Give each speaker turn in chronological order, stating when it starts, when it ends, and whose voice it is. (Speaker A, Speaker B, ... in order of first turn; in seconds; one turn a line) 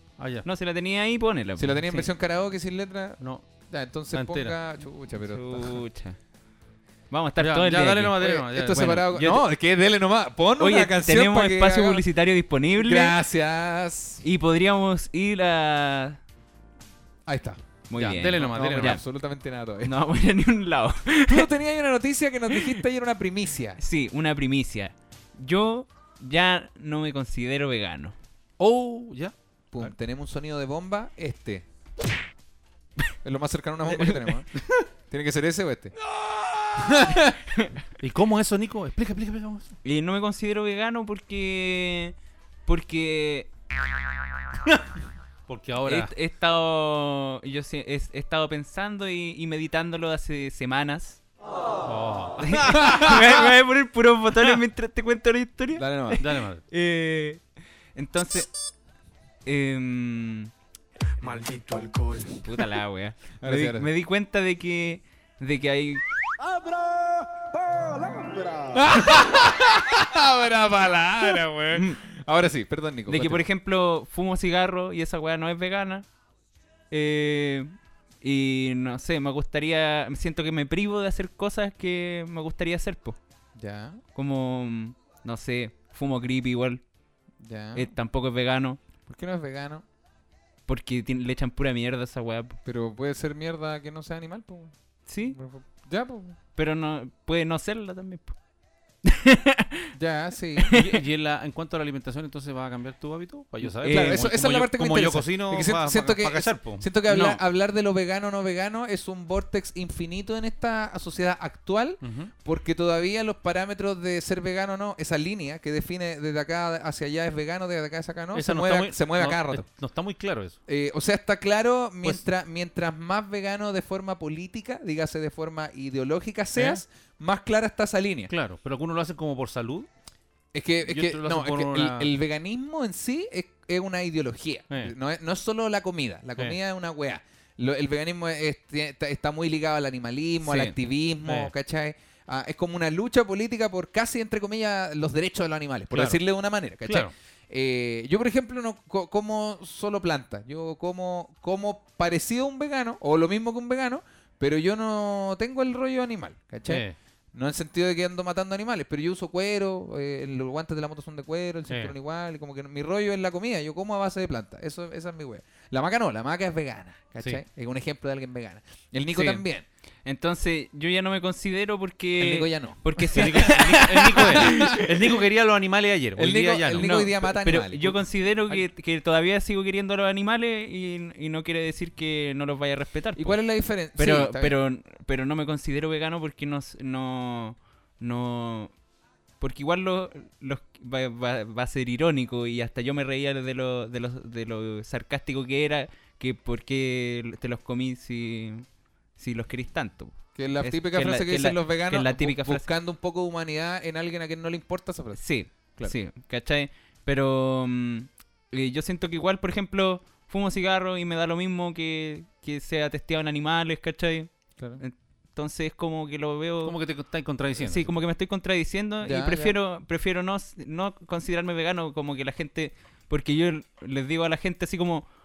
Speaker A: 0.2-0.5
Speaker B: 0.4-2.1
Speaker C: 1.6-5.8
Speaker A: 3.2-3.5
Speaker A: 4.1-4.6
Speaker B: 5.2-6.2
Speaker B: 7.1-9.4
Speaker A: 7.4-9.0
Speaker C: 8.2-12.0
Speaker B: 10.6-13.2
Speaker C: 12.8-14.2
Speaker B: 14.2-16.2
Speaker C: 17.3-17.6
Speaker B: 17.9-19.0
Speaker A: 17.9-19.0
Speaker C: 18.2-19.9
Speaker B: 19.8-21.5
Speaker C: 21.3-23.8
Speaker B: 23.8-28.1
Speaker A: 28.6-29.8
Speaker C: 29.7-31.6
Speaker C: 33.2-35.9
Speaker A: 34.6-34.8
Speaker C: 36.8-37.4
Speaker A: 38.0-39.7
Speaker B: 39.8-42.1
Speaker B: 42.6-43.5
Speaker A: 45.5-46.1
Speaker B: 45.9-51.2
Speaker A: 51.8-52.8
Speaker B: 52.4-57.4
Speaker C: 52.8-53.3
Speaker C: 55.7-56.2
Speaker A: 56.2-56.6
Speaker B: 57.9-58.5
Speaker B: 59.5-60.5
Speaker D: 61.2-62.4
Speaker B: 62.4-66.2
Speaker C: 63.4-63.9
Speaker D: 66.4-68.8
Speaker C: 68.7-73.4
Speaker B: 71.7-72.0
Speaker B: 73.1-76.0
Speaker B: 76.9-83.2
Speaker C: 83.5-84.0
Speaker B: 84.1-86.8
Speaker C: 87.4-87.9
Speaker B: 87.7-88.8
Speaker C: 89.0-89.8
Speaker B: 90.7-92.6
Speaker C: 92.6-94.7
Speaker B: 95.0-95.4
Speaker C: 95.3-96.4
Speaker B: 96.5-98.3
Speaker B: 99.0-99.9
Speaker C: 99.9-100.7
Speaker A: 100.7-107.4
Speaker B: 103.7-104.3
Speaker C: 103.8-119.7
Speaker A: 112.0-112.3
Speaker A: 118.3-120.6
Speaker C: 120.7-128.3
Speaker A: 126.5-126.8
Speaker A: 128.3-129.9
Speaker C: 130.5-169.6
Speaker A: 130.8-132.1
Speaker A: 140.4-141.5
Speaker A: 145.9-146.2
Speaker A: 146.8-147.1
Speaker A: 156.7-156.9
Speaker A: 161.7-161.9
Speaker B: 169.1-169.4
Speaker B: 170.0-174.8
Speaker C: 172.2-173.2
Speaker A: 173.1-176.9
Speaker C: 176.2-178.0
Speaker B: 176.8-183.4
Speaker C: 183.2-184.5
Speaker B: 183.9-188.7
Speaker B: 189.4-198.6
Speaker B: 199.2-202.7
Speaker C: 200.3-205.2
Speaker B: 205.2-216.8
Speaker A: 216.6-217.9
Speaker B: 217.6-225.1
Speaker C: 219.0-219.5